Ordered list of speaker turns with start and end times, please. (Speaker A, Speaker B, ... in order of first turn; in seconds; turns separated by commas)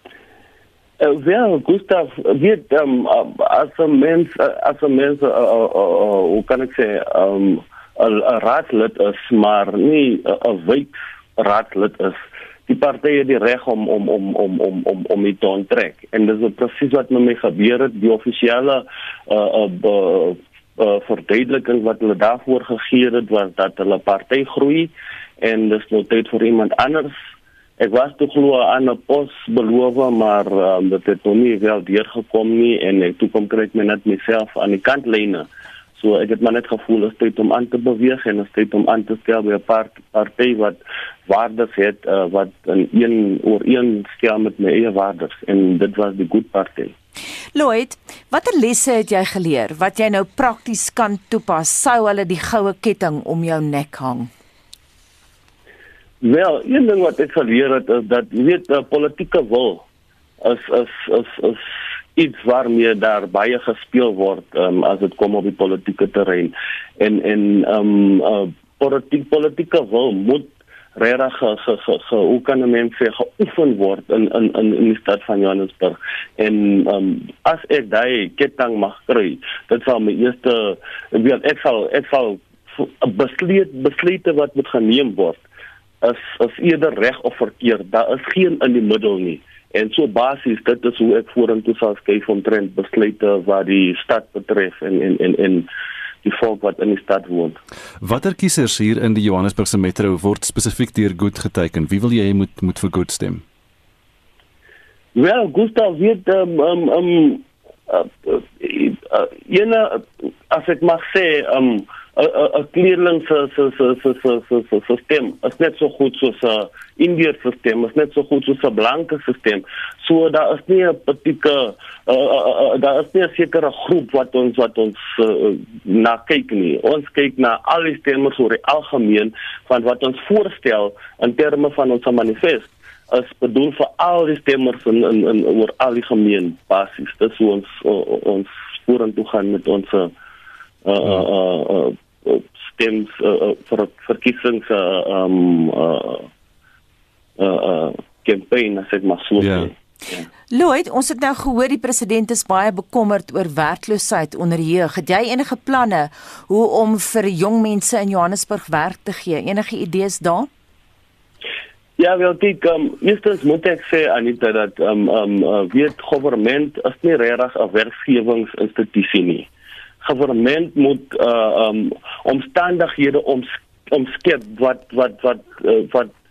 Speaker A: 1.0-27.1, Speaker A: 27.8-46.9, Speaker B: 47.5-54.3, Speaker A: 56.2-59.8, Speaker A: 60.4-61.6, Speaker A: 62.1-85.4, Speaker A: 86.0-95.7, Speaker A: 96.2-97.6, Speaker C: 98.0-103.4, Speaker A: 105.2-140.1, Speaker A: 140.8-146.3, Speaker A: 147.4-150.2, Speaker C: 149.4-149.7, Speaker B: 150.5-160.5, Speaker A: 162.0-169.5, Speaker A: 170.0-176.1